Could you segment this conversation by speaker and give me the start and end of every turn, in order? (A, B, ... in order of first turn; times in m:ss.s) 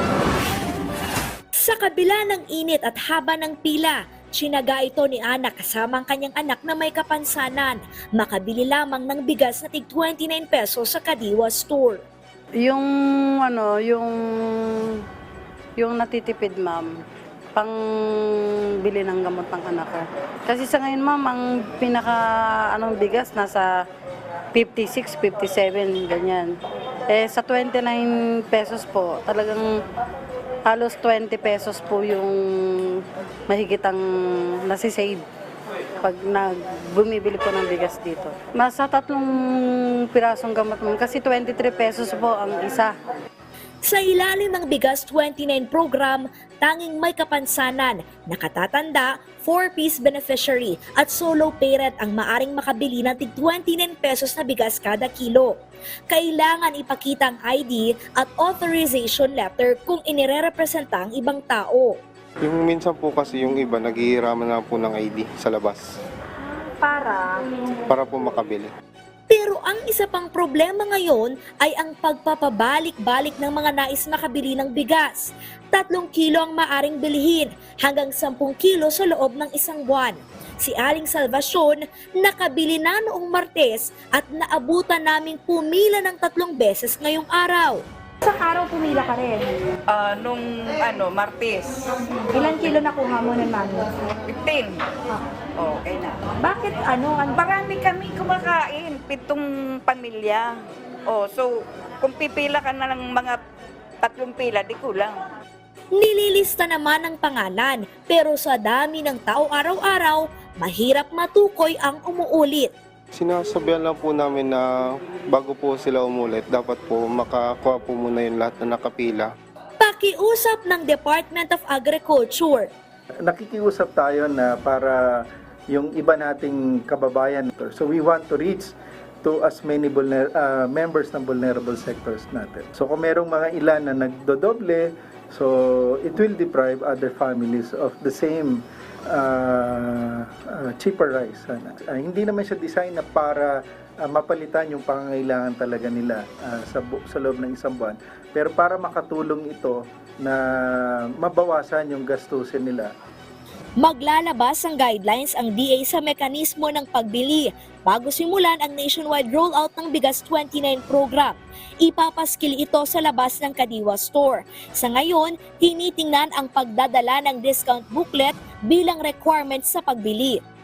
0:01.6-0:12.0 A
0:13.5-0:14.1 B
0:15.8-0:16.8 B
0:18.9-0:23.7 B
0:24.5-0:26.4 B
0:27.1-0:29.6 B
0:30.7-0:32.4 B
0:33.5-0:34.0 B
0:34.7-0:35.2 B
0:36.0-0:39.3 B
0:40.1-0:42.9 B
0:43.8-0:55.5 A
0:56.1-1:02.0 A
1:02.4-1:05.8 C
1:06.8-1:07.4 D
1:07.9-1:08.7 C
1:09.3-1:27.8 A
1:28.2-1:29.6 D
1:29.9-1:31.9 E
1:32.3-1:33.9 D
1:34.3-1:34.8 E
1:35.6-1:36.2 E
1:36.4-1:37.4 D
1:36.8-1:40.6 E
1:41.1-1:43.4 E
1:44.0-1:45.2 E
1:46.0-1:52.7 A
1:53.2-1:59.3 C
1:59.8-2:02.7 A
2:03.2-2:32.9 F
2:33.8-2:50.4 A